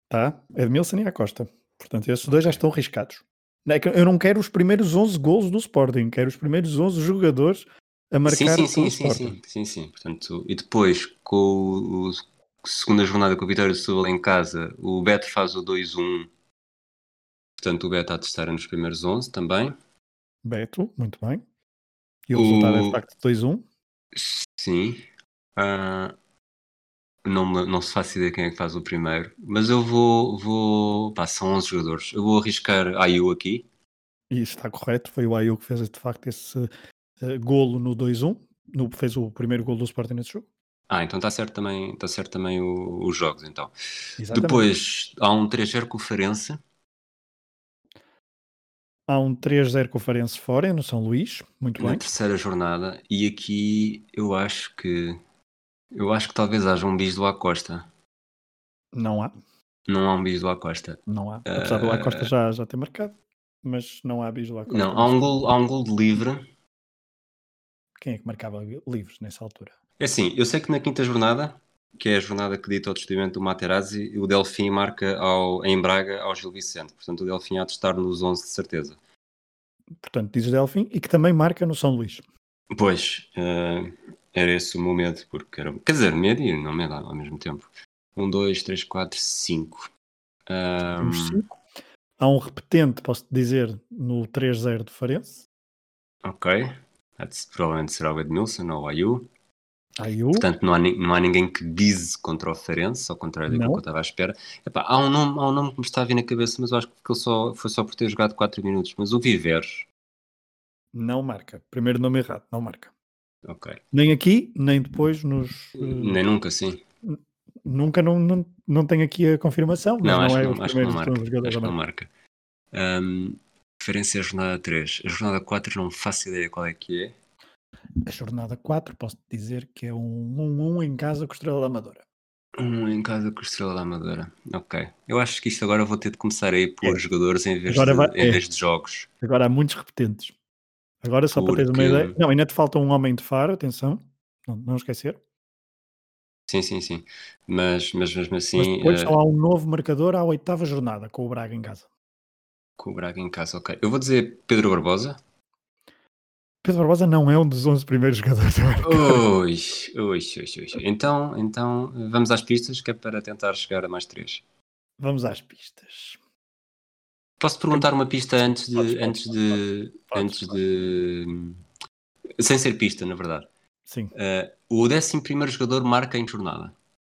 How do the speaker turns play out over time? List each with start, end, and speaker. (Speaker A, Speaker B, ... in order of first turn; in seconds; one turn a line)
Speaker A: 0.1-9.4
Speaker B: 8.2-16.3
Speaker B: 17.6-19.8
Speaker A: 20.4-21.4
Speaker A: 22.3-23.6
Speaker B: 22.4-23.0
Speaker B: 24.1-25.0
Speaker B: 25.6-26.1
Speaker B: 27.2-33.6
Speaker A: 34.3-36.7
Speaker A: 37.2-40.5
Speaker B: 40.9-46.6
Speaker A: 44.2-44.7
Speaker A: 49.1-52.1
Speaker B: 51.8-55.2
Speaker B: 55.9-57.9
Speaker A: 58.9-59.3
Speaker B: 59.9-62.3
Speaker A: 61.1-65.4
Speaker B: 64.7-66.4
Speaker A: 68.0-69.8
Speaker B: 70.0-79.0
Speaker A: 80.0-82.2
Speaker B: 82.7-89.9
Speaker B: 90.5-91.4
Speaker A: 91.0-91.5
Speaker A: 92.2-95.4
Speaker B: 96.2-99.3
Speaker A: 100.0-100.5
Speaker B: 100.3-109.8
Speaker A: 103.5-103.8
Speaker A: 110.9-112.9
Speaker B: 113.4-113.8
Speaker A: 113.9-116.2
Speaker B: 115.8-116.8
Speaker A: 117.0-121.8
Speaker B: 120.0-122.1
Speaker B: 122.7-127.1
Speaker A: 128.1-132.0
Speaker B: 132.6-139.1
Speaker A: 137.7-138.4
Speaker A: 139.2-140.3
Speaker A: 141.0-145.2
Speaker B: 141.3-142.2
Speaker B: 146.5-149.2
Speaker A: 148.6-151.9
Speaker B: 152.8-155.2
Speaker A: 156.6-159.2
Speaker B: 158.8-164.4
Speaker A: 165.0-166.2
Speaker B: 167.4-171.6
Speaker A: 168.4-170.6
Speaker B: 172.4-173.5
Speaker A: 173.9-174.1
Speaker B: 174.1-176.7